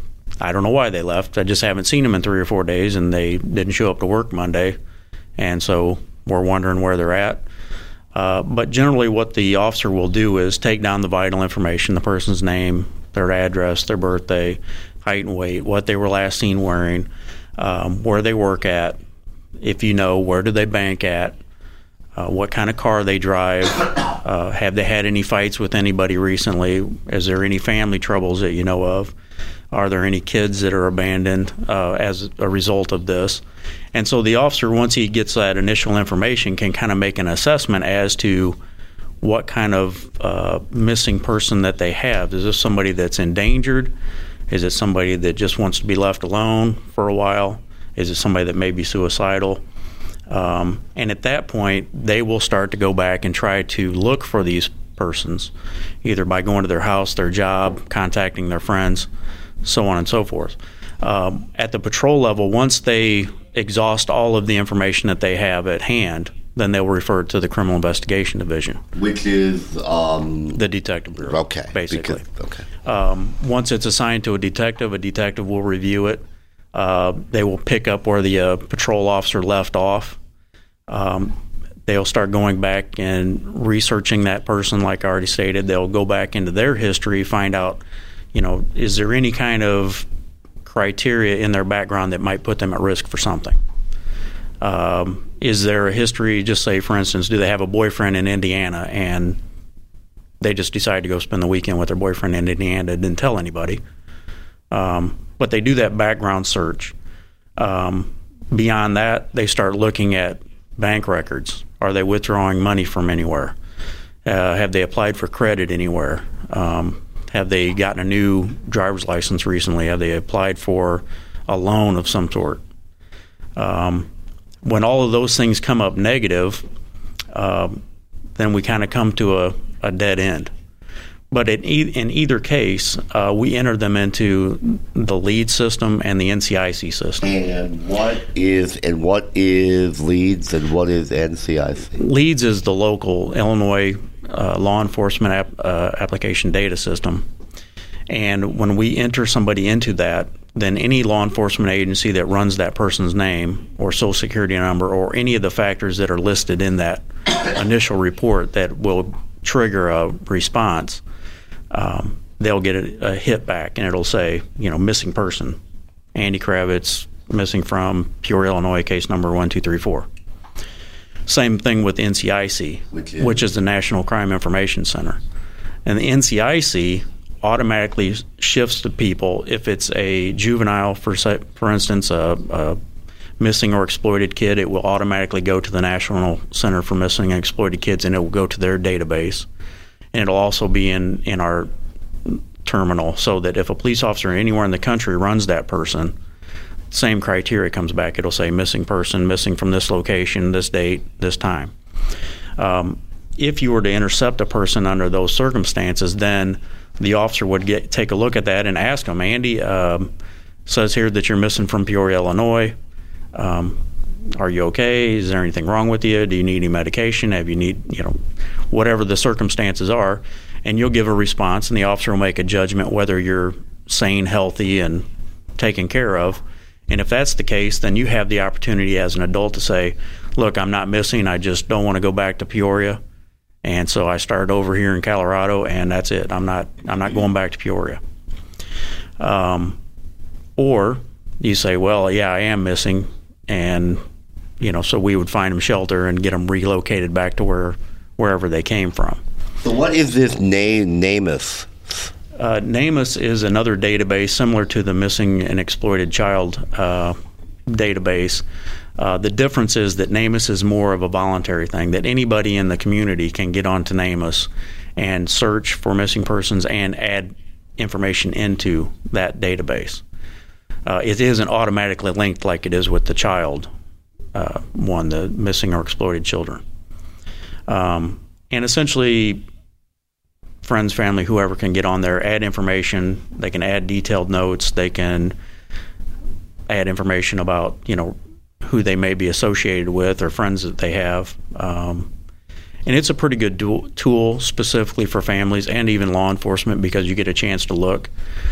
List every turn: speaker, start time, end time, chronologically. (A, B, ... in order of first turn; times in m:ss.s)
0:00.4-0:04.8 A
0:05.4-0:07.4 A
0:08.1-0:19.0 A
0:19.6-0:21.4 A
0:22.2-0:29.1 A
0:29.7-0:33.4 A
0:33.9-0:38.6 A
0:39.2-0:43.9 A
0:44.5-0:49.6 A
0:50.3-0:55.5 A
0:56.0-0:59.1 A
0:59.6-1:08.8 A
1:08.9-1:10.6 B
1:10.5-1:12.2 A
1:11.2-1:12.7 B
1:12.8-1:20.2 A
1:20.9-1:27.8 A
1:28.3-1:30.0 A
1:30.6-1:33.6 A
1:34.6-1:39.4 A
1:40.4-1:43.8 A
1:44.7-1:46.9 A
1:47.6-1:53.6 A
1:54.2-2:02.6 A
2:03.6-2:04.1 A
2:04.6-2:06.6 A
2:07.3-2:07.8 A
2:08.4-2:10.5 A
2:11.3-2:17.3 A
2:17.2-2:22.0 B
2:22.0-2:27.2 A
2:28.1-2:41.0 A
2:41.7-2:45.6 A
2:46.1-2:50.1 A
2:51.2-2:55.2 A
2:52.9-2:53.4 B
2:55.8-3:02.8 A
3:03.4-3:09.5 A
3:10.1-3:11.7 A
3:12.2-3:16.1 A
3:16.9-3:21.7 A
3:22.6-3:30.1 A
3:30.6-3:32.8 A
3:33.3-3:33.8 A
3:34.3-3:38.2 A
3:38.7-3:45.0 A
3:45.6-3:53.0 A
3:53.6-3:58.0 A
3:59.2-3:59.8 A
4:00.6-4:04.0 A
4:04.6-4:09.2 A
4:09.6-4:12.1 B
4:12.3-4:18.4 A
4:19.0-4:30.0 A
4:30.8-4:33.7 A
4:34.3-4:36.6 A
4:37.7-4:39.4 A
4:40.6-4:45.3 A
4:46.7-4:52.1 A
4:52.8-4:58.1 A